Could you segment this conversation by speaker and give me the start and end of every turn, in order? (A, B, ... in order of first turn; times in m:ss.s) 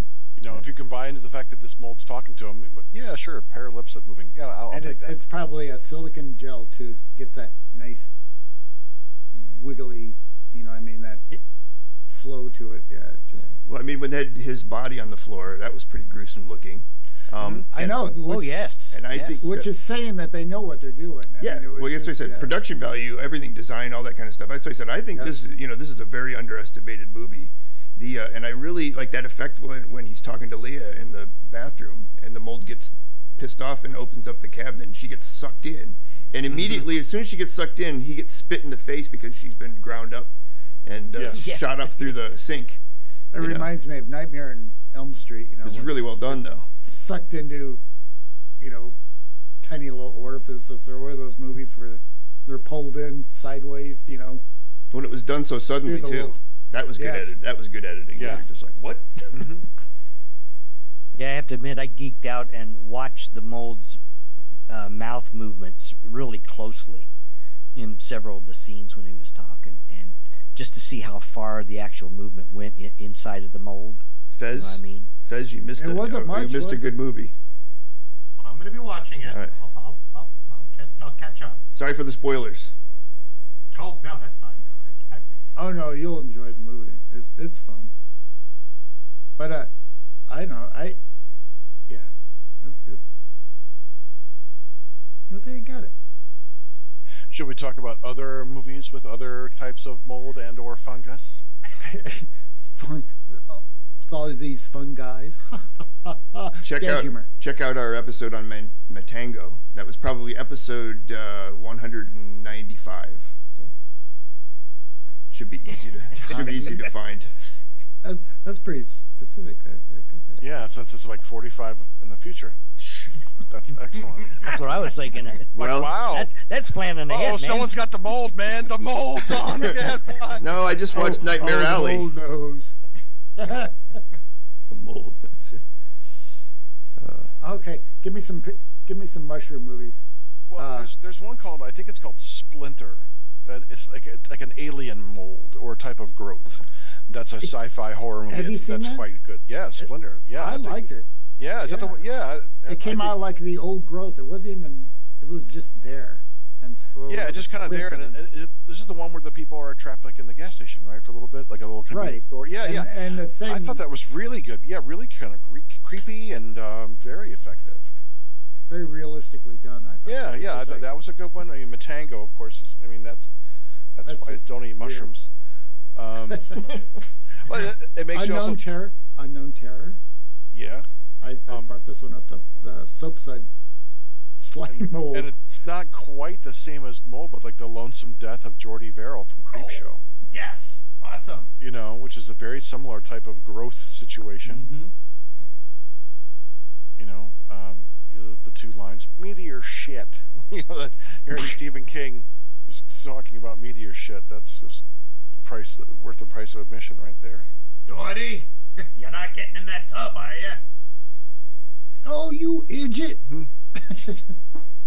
0:00.4-0:05.2 A
0:04.7-0:08.1 B
0:09.3-0:11.3 B
0:12.1-0:13.5 B
0:13.4-0:18.2 C
0:17.4-0:17.7 A
0:17.7-0:18.7 B
0:18.2-0:19.5 D
0:18.9-0:19.7 C
0:19.4-0:22.5 B
0:21.4-0:42.8 C
0:25.2-0:25.4 B
0:36.5-0:36.9 A
0:41.1-0:41.4 A
0:41.3-0:42.2 D
0:43.3-0:47.8 B
0:43.4-0:43.7 C
0:45.6-0:46.7 C
0:48.6-0:49.0 B
0:49.6-0:54.4 B
0:54.9-0:59.6 C
0:55.8-0:56.4 B
0:57.0-0:57.3 B
0:58.2-0:58.5 A
0:58.2-0:58.5 B
0:59.3-0:59.7 A
1:01.2-1:04.0 D
1:04.7-1:07.1 D
1:07.8-1:15.1 D
1:14.3-1:17.4 C
1:15.8-1:17.0 B
1:18.4-1:21.6 E
1:19.2-1:19.5 C
1:21.7-1:22.7 C
1:23.7-1:25.2 E
1:25.6-1:27.9 B
1:29.4-1:29.7 B
1:30.3-1:31.0 B
1:32.6-1:33.0 B
1:35.3-1:35.9 B
1:37.3-1:41.4 A
1:41.8-1:47.3 B
1:46.6-1:53.7 C
1:55.3-1:57.3 C
1:56.2-1:56.9 B
1:58.0-2:00.4 B
2:00.4-2:02.6 A
2:02.8-2:03.1 C
2:03.5-2:04.6 A
2:04.4-2:07.8 D
2:05.5-2:06.0 C
2:05.5-2:06.3 A
2:07.1-2:10.5 A
2:10.3-2:12.1 C
2:10.9-2:12.7 B
2:13.4-2:14.0 B
2:14.7-2:15.6 C
2:17.0-2:17.3 C
2:17.4-2:20.0 B
2:20.5-2:33.2 A
2:20.6-2:20.9 B
2:28.3-2:29.0 B
2:29.8-2:31.1 B
2:31.6-2:32.0 B
2:32.7-2:38.2 B
2:37.1-2:47.9 A
2:41.9-2:43.8 B
2:48.7-2:50.9 B
2:50.0-2:53.3 A
2:54.0-2:55.3 A
2:54.0-2:55.1 B
2:56.0-2:56.6 A
2:56.3-2:56.8 B
2:57.4-2:58.6 A
2:58.1-3:00.0 B
3:00.5-3:00.8 A
3:01.2-3:03.5 B
3:04.4-3:05.3 B
3:04.7-3:10.0 A
3:09.5-3:11.5 E
3:11.6-3:14.7 A
3:14.4-3:14.9 E
3:17.0-3:24.8 A
3:25.4-3:27.5 A
3:27.9-3:30.6 E
3:32.0-3:33.2 B
3:33.8-3:34.3 B